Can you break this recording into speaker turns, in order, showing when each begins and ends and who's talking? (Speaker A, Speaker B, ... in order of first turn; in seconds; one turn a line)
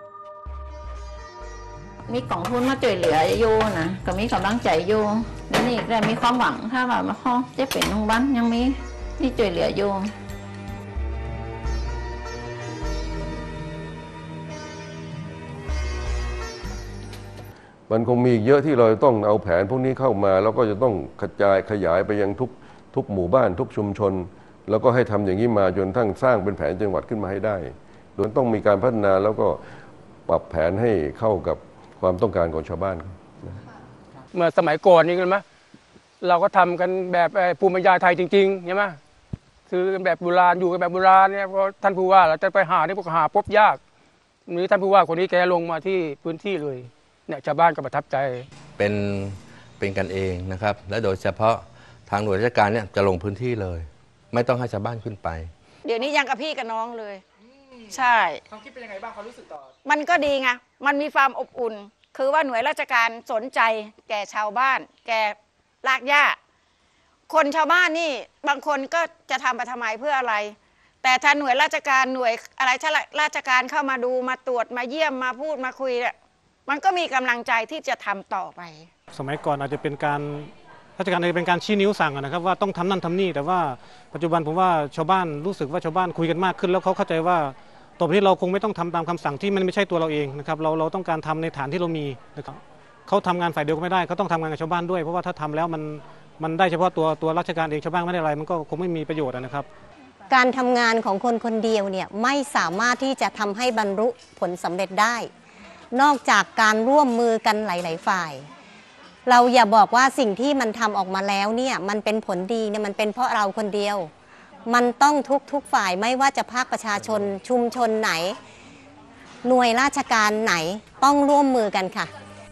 Speaker A: 2.1-10.1
Speaker B: 17.9-29.6
Speaker B: 30.3-33.6
Speaker C: 34.3-35.4
Speaker C: 36.2-39.0
Speaker C: 39.7-43.8
Speaker C: 44.5-48.5
Speaker D: 48.8-55.5
Speaker E: 55.8-57.2
Speaker E: 57.9-58.4
Speaker E: 59.8-66.4
Speaker E: 67.3-76.1
Speaker E: 76.7-78.9
Speaker F: 79.1-99.7
Speaker G: 100.3-105.3
Speaker G: 105.9-108.4
Speaker G: 109.2-114.1
Speaker G: 114.7-118.3
Speaker G: 119.4-122.1